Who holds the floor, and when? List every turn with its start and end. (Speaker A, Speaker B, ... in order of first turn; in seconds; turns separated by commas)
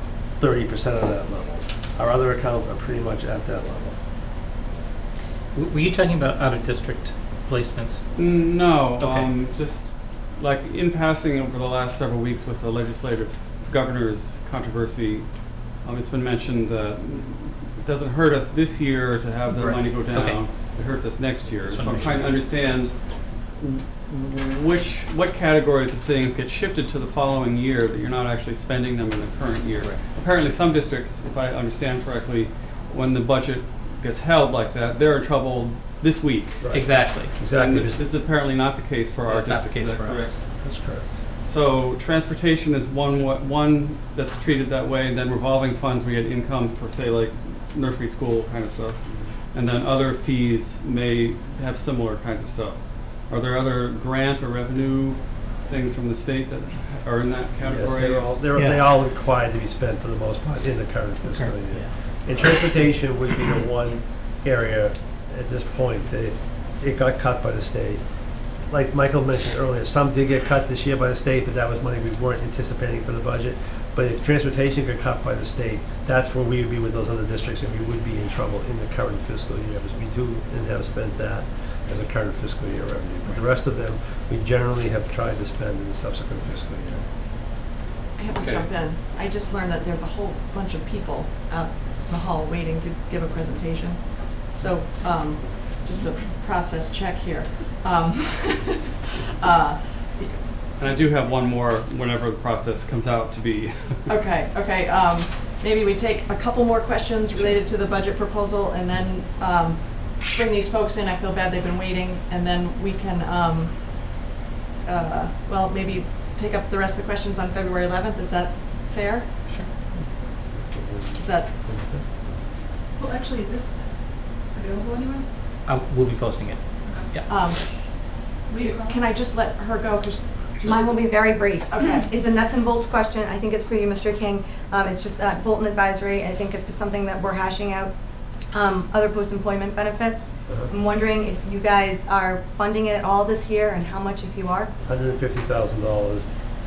Speaker A: 0.4-4.0, Speaker B: 5.5-8.0, Speaker C: 8.1-36.6, Speaker B: 9.0-9.3, Speaker B: 19.5-20.5, Speaker B: 21.6-22.5, Speaker A: 36.6-38.0, Speaker B: 36.7-37.4, Speaker C: 37.5-40.4, Speaker B: 39.3-40.4, Speaker A: 40.6-41.2, Speaker C: 41.4-58.4, Speaker A: 57.6-87.1, Speaker B: 58.5-58.9, Speaker B: 61.3-62.1, Speaker D: 88.2-100.4, Speaker C: 88.3-88.7, Speaker C: 100.8-104.1, Speaker D: 104.0-114.3, Speaker D: 114.8-119.5, Speaker A: 119.9-122.4, Speaker D: 121.1-121.5, Speaker E: 123.0-123.8, Speaker E: 124.5-125.2, Speaker B: 125.6-127.3, Speaker D: 127.2-131.1, Speaker E: 128.5-128.9, Speaker F: 130.6-137.9, Speaker D: 131.7-132.1, Speaker F: 138.5-144.7, Speaker A: 144.8-146.3